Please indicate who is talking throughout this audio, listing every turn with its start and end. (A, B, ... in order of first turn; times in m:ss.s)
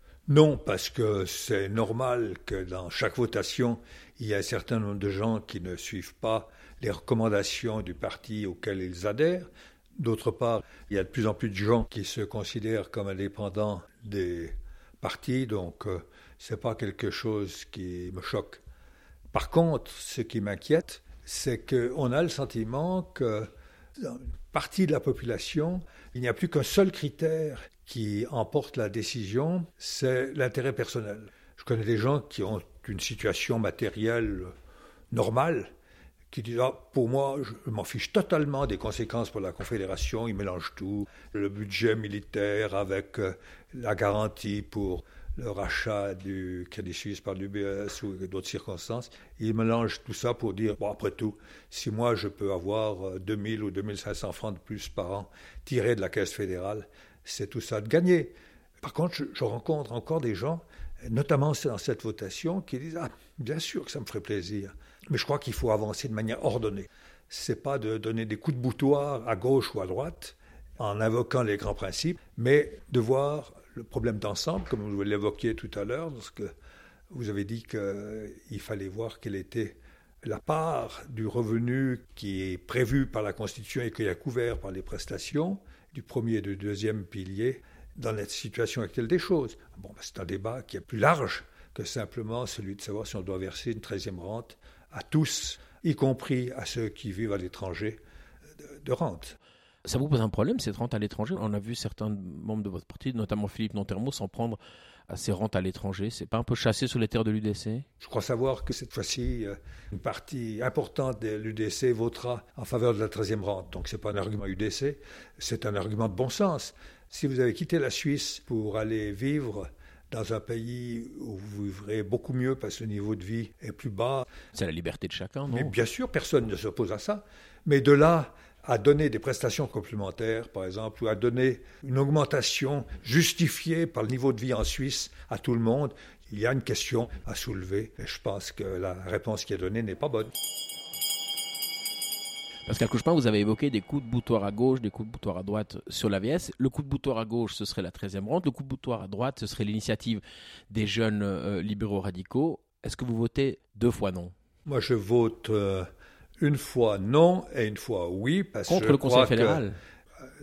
0:00.3-0:18.6 A
0:19.3-0:34.5 A
0:35.1-0:35.7 A
0:36.3-1:16.5 A
1:17.1-1:38.0 A
1:38.8-1:39.4 A
1:39.8-1:47.9 B
1:48.0-2:04.3 A
2:04.5-2:05.8 B
2:05.5-2:20.3 A
2:22.7-2:34.3 B
2:34.7-2:35.9 A
2:36.4-2:39.6 A
2:38.7-2:39.8 B